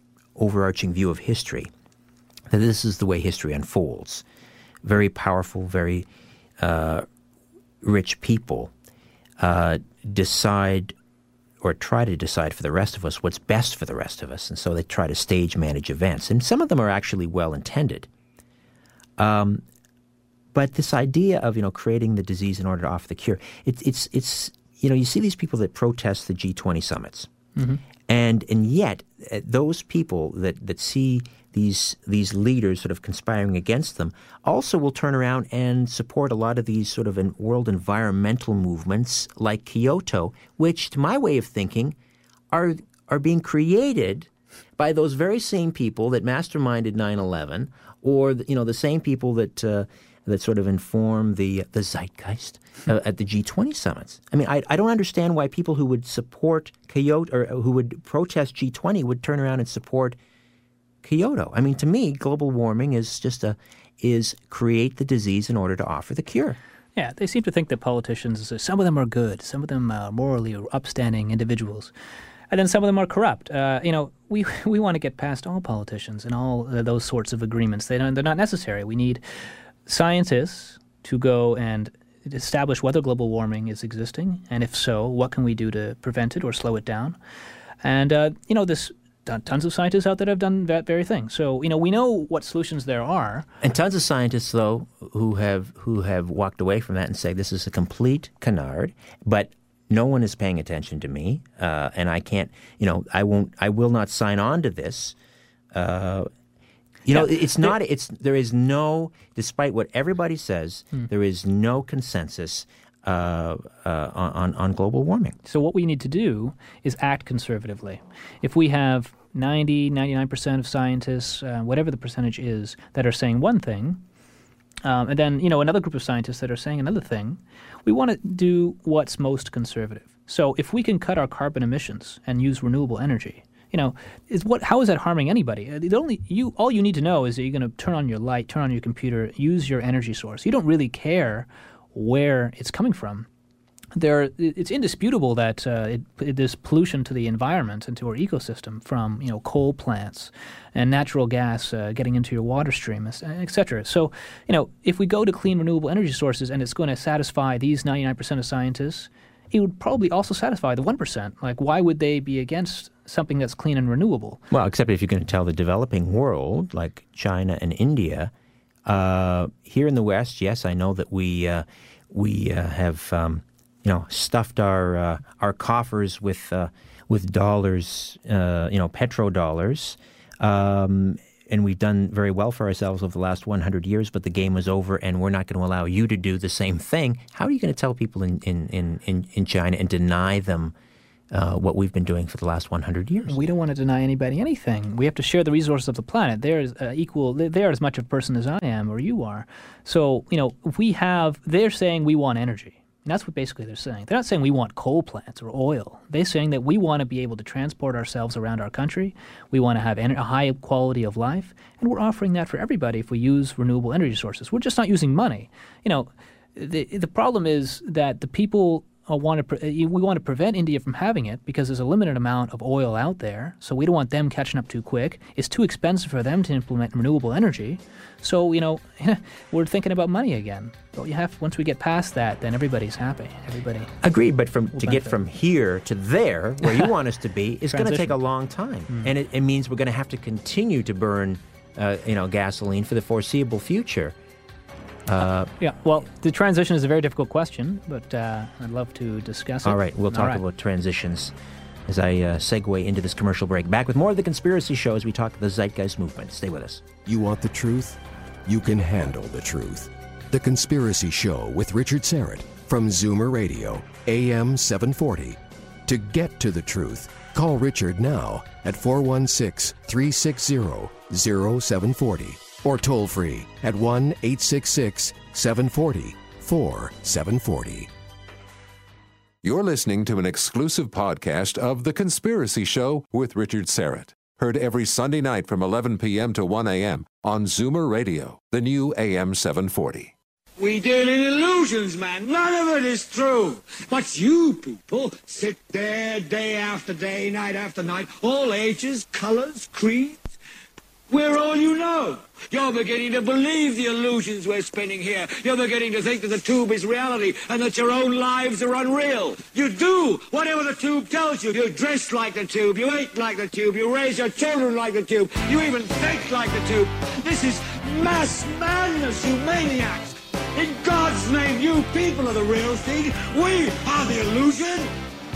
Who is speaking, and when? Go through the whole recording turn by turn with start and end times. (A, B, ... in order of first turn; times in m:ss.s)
0:00.4-0:01.7 A
0:02.5-0:04.2 A
0:04.8-0:06.1 A
0:06.6-0:07.1 A
0:07.8-0:08.7 A
0:09.4-0:11.0 A
0:11.6-0:18.1 A
0:19.2-0:19.6 A
0:20.5-0:27.3 A
0:27.6-0:27.8 B
0:28.1-0:42.0 A
0:42.5-1:00.2 A
1:01.0-1:06.6 A
1:07.0-1:11.9 B
1:12.5-1:19.2 B
1:19.9-1:27.2 B
1:27.8-1:33.5 B
1:33.6-1:45.2 A
1:45.7-1:46.3 A
1:47.1-1:55.4 A
1:47.1-1:47.7 B
1:55.4-2:04.0 B
2:04.8-2:23.3 B
2:24.0-2:44.4 B
2:44.5-2:48.3 A
2:48.9-3:10.7 A
3:11.3-3:13.4 A
3:13.2-3:53.9 B
3:54.0-4:04.2 A
3:54.8-3:55.2 B
3:57.7-3:58.2 B
4:05.1-4:05.5 A
4:05.6-4:10.4 B
4:09.6-4:11.4 A
4:11.9-4:16.9 A
4:17.0-4:37.9 C
4:39.4-4:50.1 D
4:50.6-5:00.2 E
5:01.1-5:24.9 E